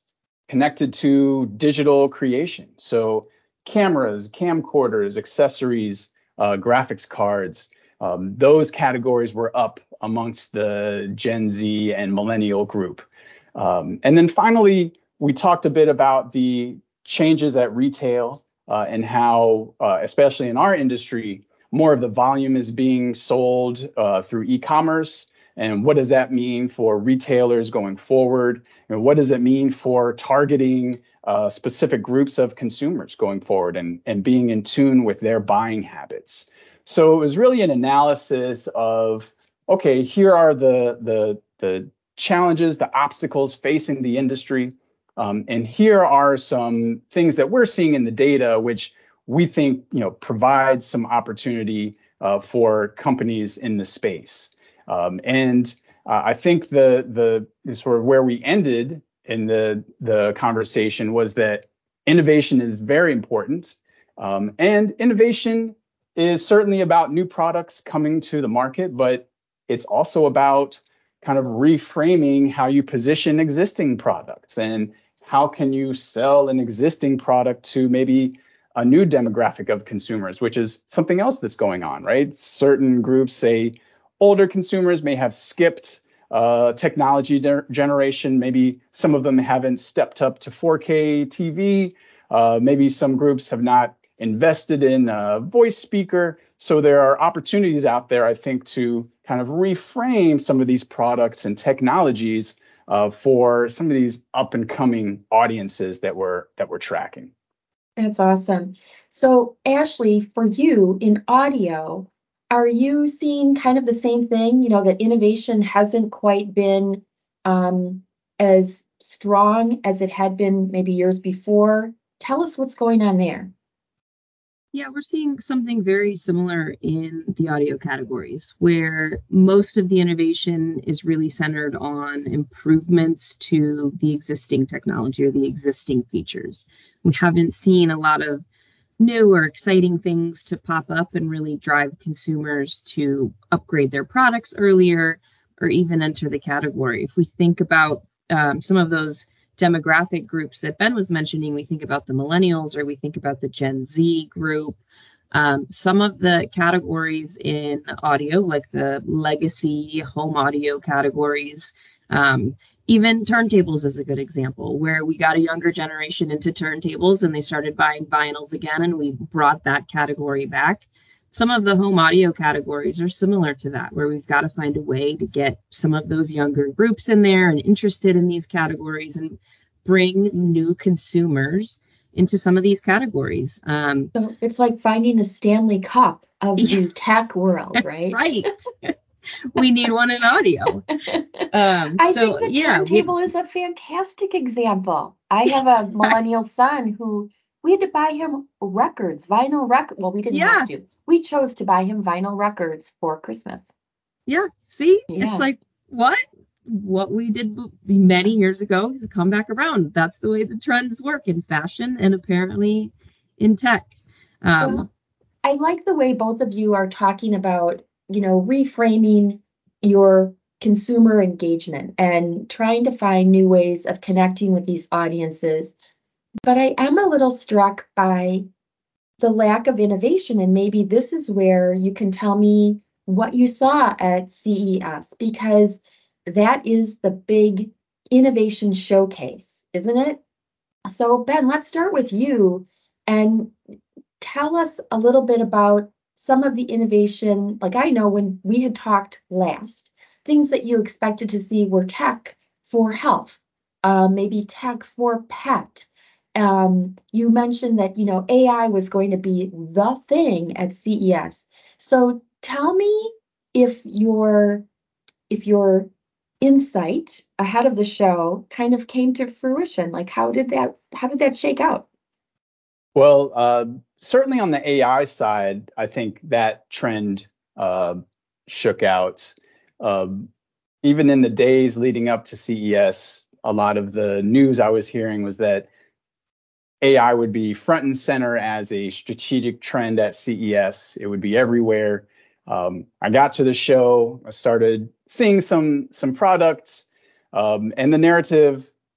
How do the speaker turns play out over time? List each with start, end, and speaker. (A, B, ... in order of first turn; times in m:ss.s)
0:00.5-1:47.3 A
1:48.0-2:03.5 B
2:04.7-2:18.4 C
2:19.0-2:34.8 C
2:35.3-3:04.1 C
3:04.2-3:08.2 B
3:08.1-3:08.9 C
3:09.5-3:10.9 C
3:11.1-3:11.5 B
3:11.5-3:13.1 C
3:12.0-3:23.7 B
3:20.3-3:20.7 C
3:24.3-3:34.9 C
3:25.1-3:25.5 B
3:34.6-3:34.9 B
3:35.4-3:45.8 B
3:46.5-3:48.5 B
3:49.2-4:00.2 B
4:00.9-4:03.5 B
4:04.2-4:24.7 B
4:25.3-4:25.9 B
4:26.4-4:31.9 B
4:33.0-4:40.3 A
4:40.8-4:45.7 A
4:46.8-4:58.7 A